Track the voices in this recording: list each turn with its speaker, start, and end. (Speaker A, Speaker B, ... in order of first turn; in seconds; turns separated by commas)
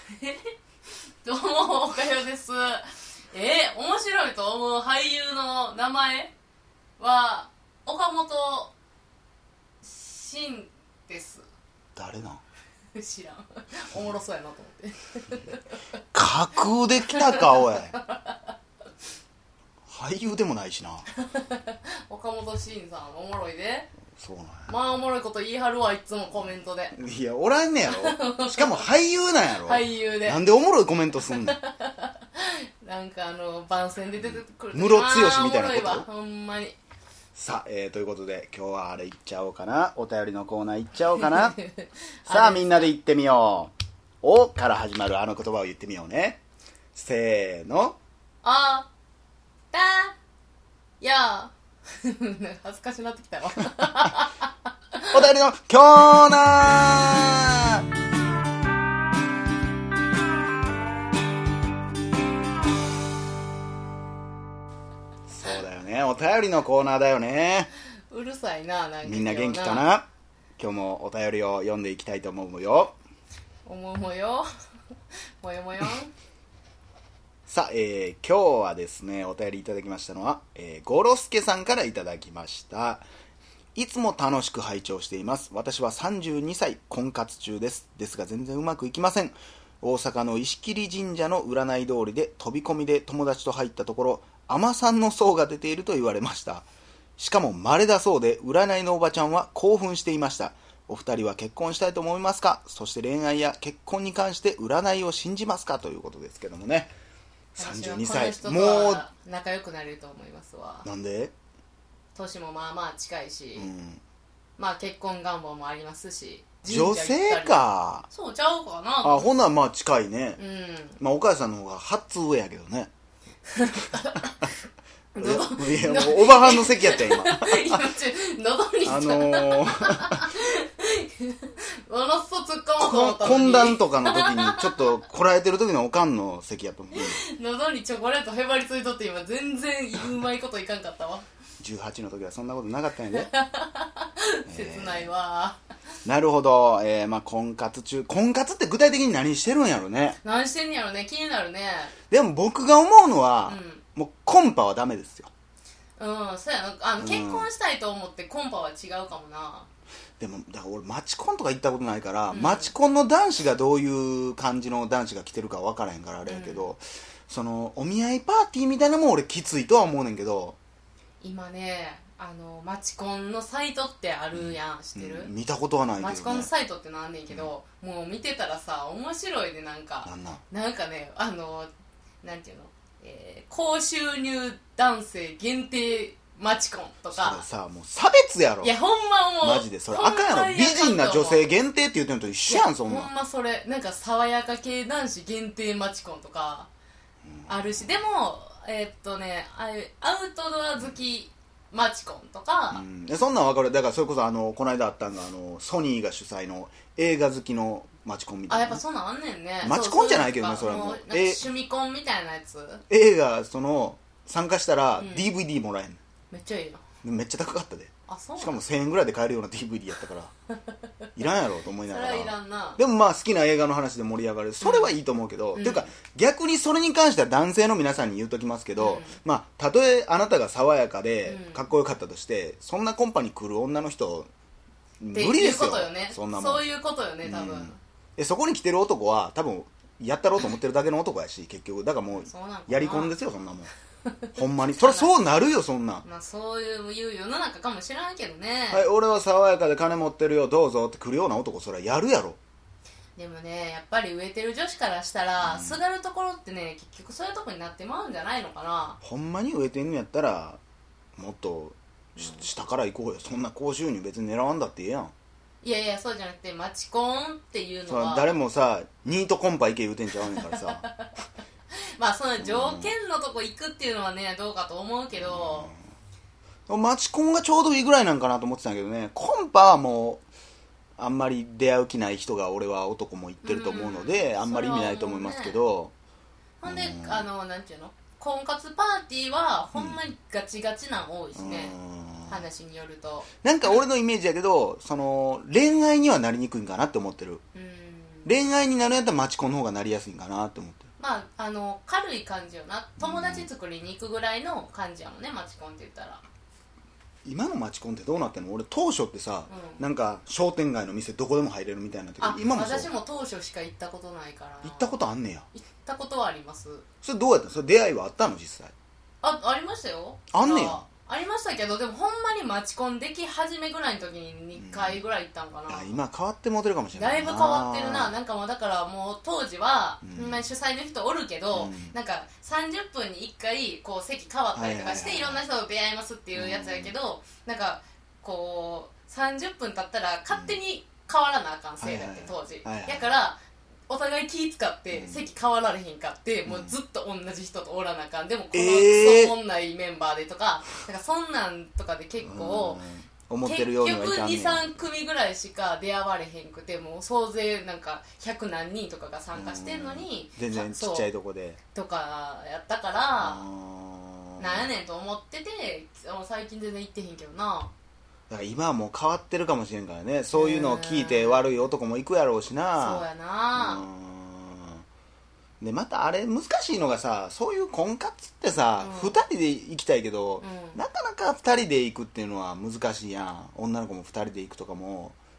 Speaker A: 1.2-6.3, Speaker A: 7.0-8.7, Speaker A: 9.8-11.4, Speaker B: 12.0-12.4, Speaker A: 12.9-15.8, Speaker B: 16.1-17.9, Speaker A: 17.0-18.5, Speaker B: 19.9-21.1, Speaker A: 21.1-23.9, Speaker B: 24.2-24.7, Speaker A: 24.7-26.9, Speaker B: 26.9-31.6, Speaker A: 27.9-28.9, Speaker A: 29.6-30.5, Speaker A: 31.2-36.8, Speaker B: 34.2-36.1, Speaker B: 37.4-41.6, Speaker A: 41.2-42.9, Speaker B: 42.2-46.4, Speaker B: 46.9-48.0, Speaker A: 48.4-48.9, Speaker A: 49.7-50.2, Speaker A: 51.0-54.5, Speaker B: 55.1-57.9, Speaker B: 65.3-67.7, Speaker A: 68.1-69.9, Speaker B: 69.0-70.0, Speaker B: 70.6-73.0, Speaker A: 73.7-74.5, Speaker A: 75.4-76.1, Speaker B: 77.5-83.0, Speaker B: 83.8-96.7, Speaker B: 97.2-106.9, Speaker B: 107.5-109.1, Speaker A: 107.6-110.9, Speaker B: 110.8-111.3, Speaker A: 112.2-113.7, Speaker B: 113.6-114.0, Speaker A: 114.6-119.3, Speaker B: 116.7-118.1, Speaker B: 119.0-120.4, Speaker A: 120.4-121.0, Speaker B: 121.0-122.9, Speaker A: 123.5-124.5, Speaker A: 125.2-134.9, Speaker B: 125.2-127.8, Speaker B: 128.8-130.3, Speaker B: 132.8-137.2, Speaker A: 136.9-141.2, Speaker B: 141.6-143.3, Speaker A: 143.1-145.6, Speaker B: 144.5-145.1, Speaker B: 146.1-150.2, Speaker A: 150.2-151.9, Speaker B: 152.1-155.3, Speaker A: 153.5-153.8, Speaker A: 156.0-159.7, Speaker B: 157.0-157.5, Speaker B: 160.2-170.6, Speaker A: 162.3-162.7, Speaker A: 166.3-166.7, Speaker A: 171.2-175.3, Speaker B: 174.3-176.5, Speaker A: 176.0-181.7, Speaker B: 180.1-180.4, Speaker A: 182.2-187.4, Speaker B: 187.1-188.7, Speaker A: 188.6-191.5, Speaker B: 189.4-193.1, Speaker A: 192.5-196.7, Speaker B: 197.3-197.9, Speaker A: 197.5-202.8, Speaker B: 202.7-208.8, Speaker A: 208.5-212.8, Speaker B: 209.6-211.5, Speaker B: 212.9-216.0, Speaker A: 215.0-215.3, Speaker A: 216.3-216.8, Speaker B: 217.0-220.3, Speaker A: 218.1-218.6, Speaker B: 221.2-234.3, Speaker A: 221.9-222.8, Speaker A: 224.6-224.9, Speaker A: 225.6-225.9, Speaker A: 228.8-229.2, Speaker A: 231.2-231.7, Speaker B: 235.0-236.7, Speaker A: 235.1-237.8, Speaker B: 237.2-243.7, Speaker A: 242.2-243.2, Speaker B: 244.3-246.0, Speaker A: 244.7-245.2, Speaker A: 246.0-248.9, Speaker B: 248.7-252.4, Speaker A: 253.2-259.0, Speaker B: 255.4-255.8, Speaker B: 259.0-260.6, Speaker B: 261.2-265.1, Speaker A: 265.6-268.3, Speaker B: 267.9-270.9, Speaker A: 270.3-271.1, Speaker A: 272.0-275.7, Speaker B: 272.4-272.9, Speaker B: 275.1-275.8, Speaker B: 276.7-280.2, Speaker B: 281.0-285.9, Speaker A: 283.4-285.6, Speaker A: 286.6-291.8, Speaker B: 286.6-287.3, Speaker B: 289.7-290.0, Speaker B: 291.4-292.4, Speaker A: 292.3-293.3, Speaker B: 293.4-297.4, Speaker A: 297.5-298.4, Speaker B: 298.2-300.9, Speaker A: 301.0-306.2, Speaker B: 303.0-303.5, Speaker B: 307.2-312.9, Speaker A: 309.5-309.8, Speaker A: 312.2-315.0, Speaker B: 314.6-315.5, Speaker A: 315.5-316.9, Speaker B: 317.0-318.7, Speaker A: 319.2-326.0, Speaker B: 320.3-320.8, Speaker B: 324.6-325.0, Speaker B: 325.7-328.1, Speaker A: 326.9-352.8, Speaker B: 330.0-330.4, Speaker B: 331.5-331.9, Speaker B: 334.6-335.4, Speaker B: 336.4-336.9, Speaker B: 340.3-340.6, Speaker B: 341.8-343.1, Speaker B: 344.9-345.2, Speaker B: 346.5-346.8, Speaker B: 348.5-349.3, Speaker B: 352.2-354.7, Speaker A: 353.4-361.1, Speaker B: 359.3-361.6, Speaker A: 361.7-363.4, Speaker B: 363.2-364.7, Speaker A: 364.4-367.7, Speaker B: 368.3-374.9, Speaker A: 370.4-371.5, Speaker A: 372.8-373.8, Speaker B: 375.6-385.2, Speaker A: 378.8-379.2, Speaker A: 380.4-380.8